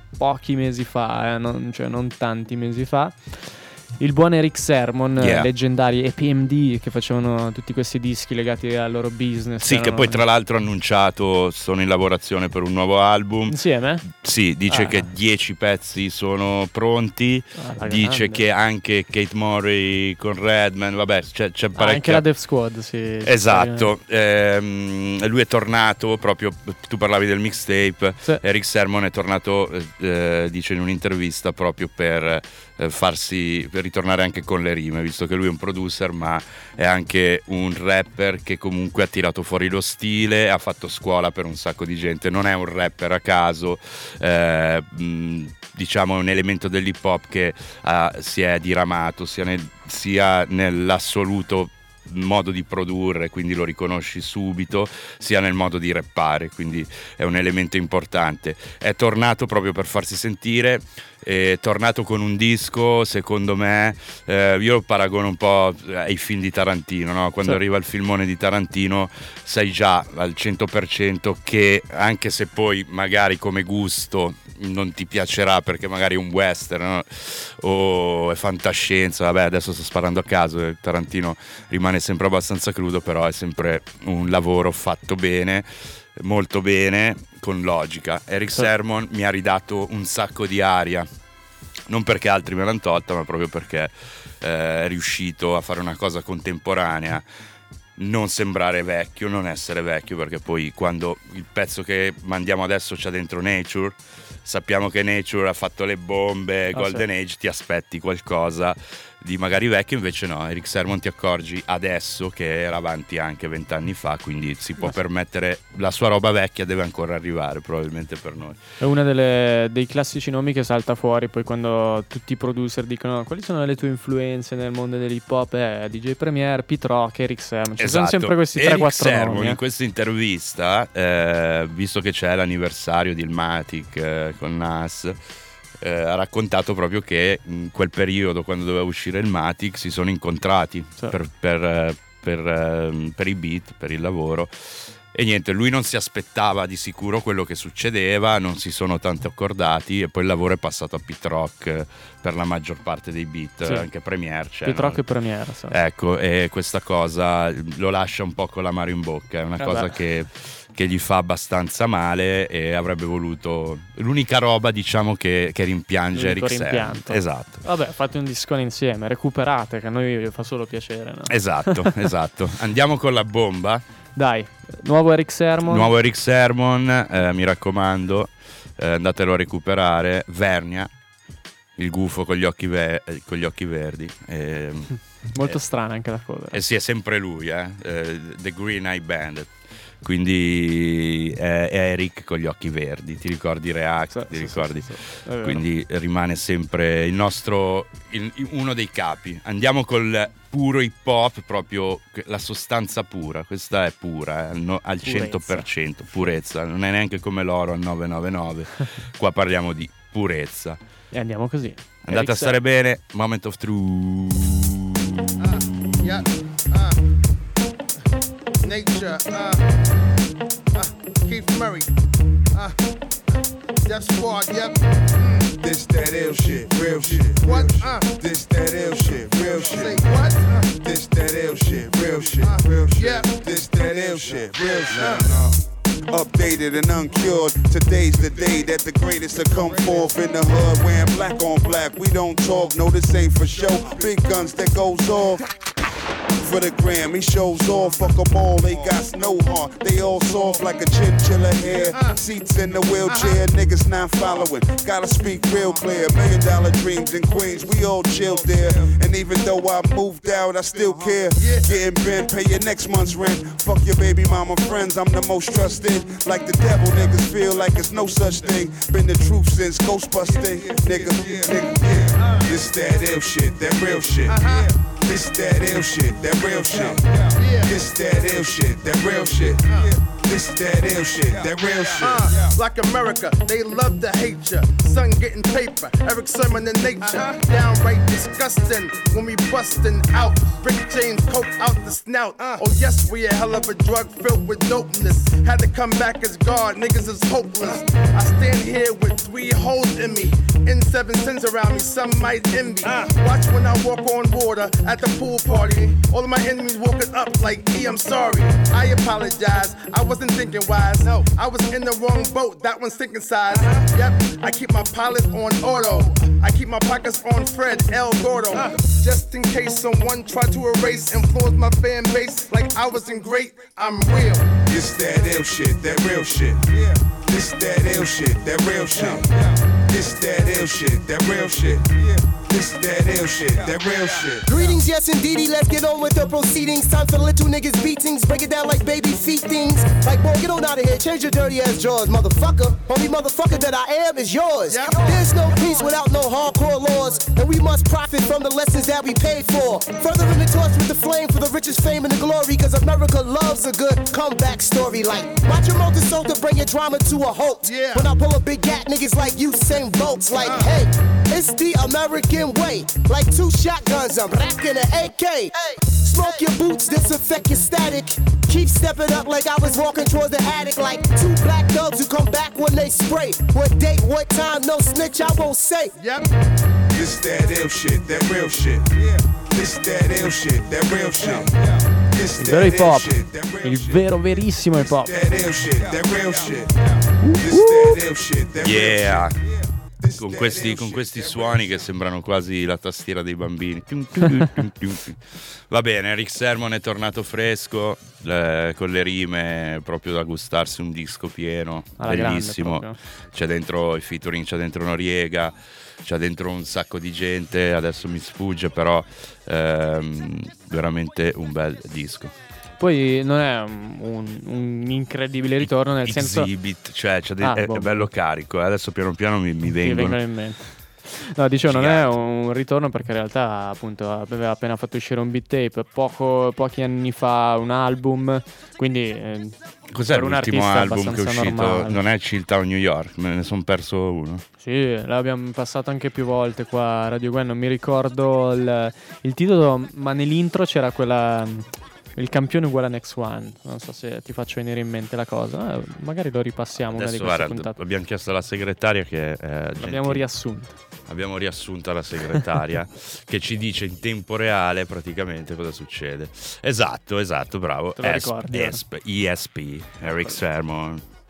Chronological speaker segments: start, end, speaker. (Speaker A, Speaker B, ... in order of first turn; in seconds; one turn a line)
Speaker A: 0.2-10.2
Speaker B: 5.2-5.5
Speaker B: 9.6-22.2
Speaker A: 13.5-14.0
Speaker A: 14.7-15.1
Speaker A: 17.6-18.4
Speaker A: 21.8-23.9
Speaker B: 23.2-91.1
Speaker B: 91.9-97.2
Speaker B: 98.0-118.6
Speaker A: 106.7-107.1
Speaker A: 118.8-129.6
Speaker B: 127.8-135.2
Speaker B: 135.8-155.0
Speaker A: 154.7-155.8
Speaker B: 155.7-167.6
Speaker A: 159.6-160.0
Speaker A: 166.1-171.9
Speaker B: 171.3-173.8
Speaker A: 174.2-175.9
Speaker B: 175.7-180.9
Speaker B: 181.8-185.6
Speaker A: 185.3-186.6
Speaker B: 186.5-189.5
Speaker B: 190.0-210.8
Speaker A: 194.1-195.6
Speaker A: 205.1-205.7
Speaker A: 211.1-212.6
Speaker B: 212.1-216.1
Speaker C: 215.4-217.0
Speaker C: 218.6-219.6
Speaker C: 220.7-221.9
Speaker C: 223.8-225.4
Speaker D: 225.6-230.0
Speaker C: 227.4-228.1
Speaker C: 229.3-230.7
Speaker D: 230.8-245.4
Speaker C: 232.4-233.3
Speaker C: 234.9-235.4
Speaker D: 246.4-282.5
Speaker C: 261.4-261.7
Speaker C: 274.3-274.7
Speaker C: 276.8-277.7
Speaker C: 282.0-324.6
Speaker D: 324.7-334.7
Speaker E: 334.5-375.9
Speaker C: 344.7-345.9
Speaker C: 357.6-358.1
Speaker C: 360.4-360.7
Speaker C: 365.6-366.4
Speaker C: 376.0-376.3
Speaker D: 376.9-384.1
Speaker A: 382.4-385.2
Speaker D: 384.9-391.7
Speaker A: 387.2-388.0
Speaker B: 388.6-389.4
Speaker B: 390.2-412.3
Speaker A: 402.0-403.0
Speaker A: 412.8-416.5
Speaker B: 415.6-420.2
Speaker A: 417.4-418.1
Speaker A: 419.8-429.6
Speaker B: 421.7-422.1
Speaker B: 429.9-434.4
Speaker A: 430.1-432.0
Speaker A: 434.6-447.8
Speaker B: 446.9-450.2
Speaker A: 449.8-450.8
Speaker B: 451.1-461.0
Speaker A: 458.0-458.8